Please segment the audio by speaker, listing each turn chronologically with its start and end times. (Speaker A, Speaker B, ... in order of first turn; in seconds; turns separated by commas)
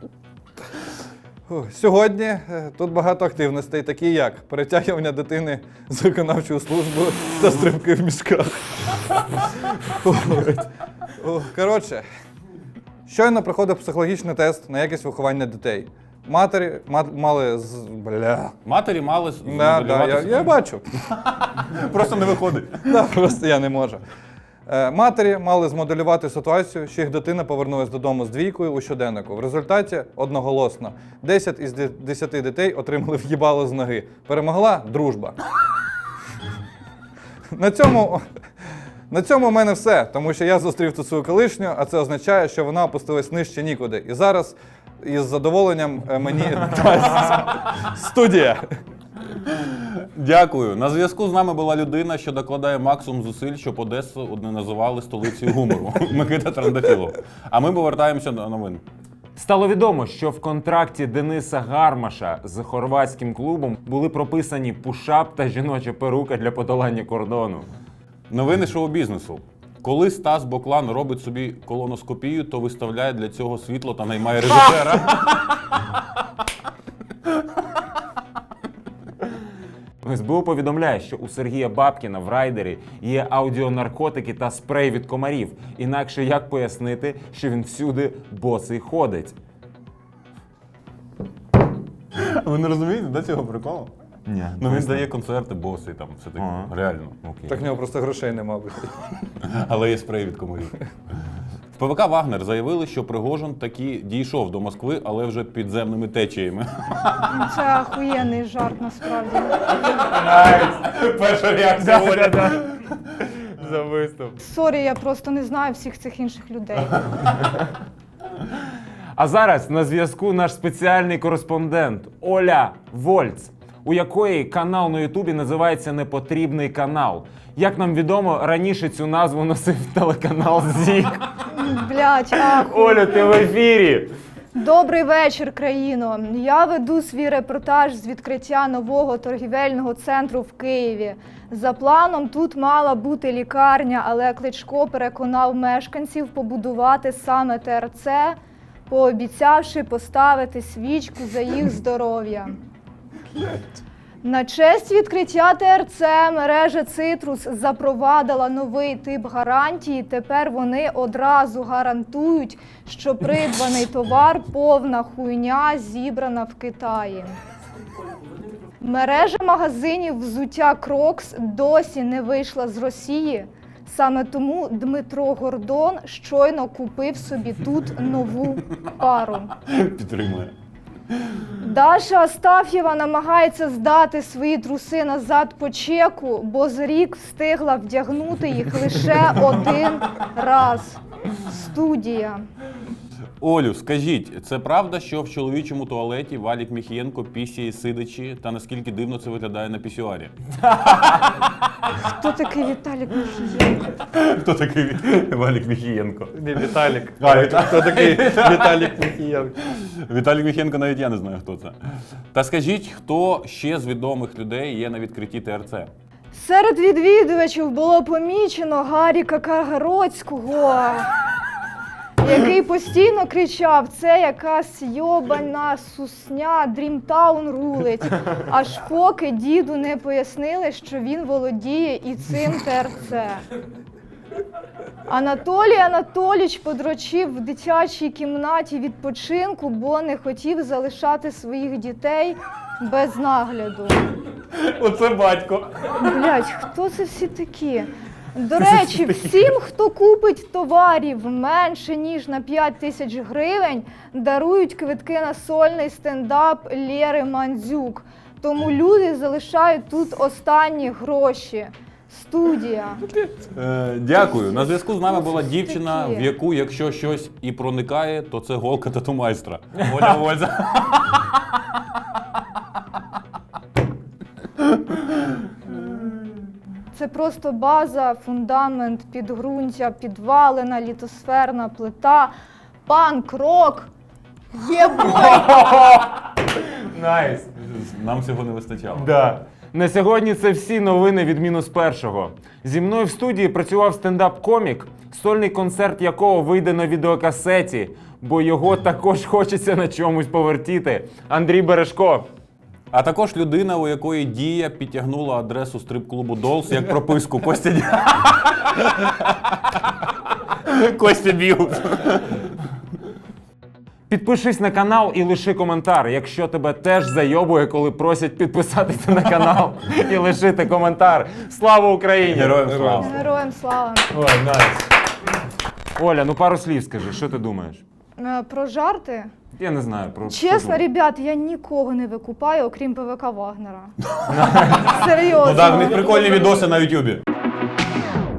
Speaker A: 1.5-12.0, Speaker A: 13.1-18.6, Speaker B: 18.6-23.0, Speaker A: 19.4-20.8, Speaker A: 22.9-24.0, Speaker A: 24.7-35.4, Speaker A: 37.5-38.2, Speaker A: 39.1-48.7, Speaker B: 49.5-58.8, Speaker C: 59.4-67.7, Speaker B: 68.3-75.3, Speaker C: 80.0-89.4, Speaker B: 92.2-93.9, Speaker C: 94.3-95.1, Speaker B: 94.6-97.2, Speaker C: 96.4-96.7, Speaker C: 97.2-97.6, Speaker A: 97.5-98.9, Speaker B: 99.4-100.8, Speaker B: 101.7-107.4, Speaker D: 107.3-109.7, Speaker C: 109.7-110.4, Speaker B: 110.2-112.6, Speaker C: 111.8-114.3, Speaker D: 114.4-117.2, Speaker C: 119.2-131.2, Speaker D: 131.5-133.3, Speaker C: 132.4-134.1, Speaker D: 134.5-148.4, Speaker D: 148.9-152.6, Speaker D: 154.2-167.3, Speaker D: 168.8-179.5, Speaker B: 179.6-180.5, Speaker D: 181.6-192.4, Speaker B: 193.4-200.3, Speaker D: 202.0-203.9, Speaker B: 203.9-209.0, Speaker A: 206.3-209.6, Speaker B: 209.7-211.8, Speaker B: 212.3-215.9, Speaker D: 216.3-221.1, Speaker D: 222.2-233.4, Speaker D: 235.1-244.1, Speaker B: 244.5-246.0, Speaker D: 246.0-263.0, Speaker B: 263.2-271.3, Speaker D: 265.1-266.3, Speaker D: 276.9-282.3, Speaker D: 282.9-283.9, Speaker D: 284.5-285.6, Speaker C: 285.0-287.5, Speaker B: 287.6-289.1, Speaker C: 289.0-302.3, Speaker B: 302.9-309.8, Speaker B: 310.5-312.4, Speaker C: 314.1-323.0, Speaker B: 322.3-323.2, Speaker A: 322.7-323.1, Speaker D: 323.0-324.2, Speaker C: 324.1-324.8, Speaker C: 326.0-327.8, Speaker D: 328.2-329.3, Speaker C: 329.6-330.8, Speaker D: 330.3-333.9, Speaker B: 334.1-337.2, Speaker C: 334.3-334.9, Speaker D: 334.8-336.6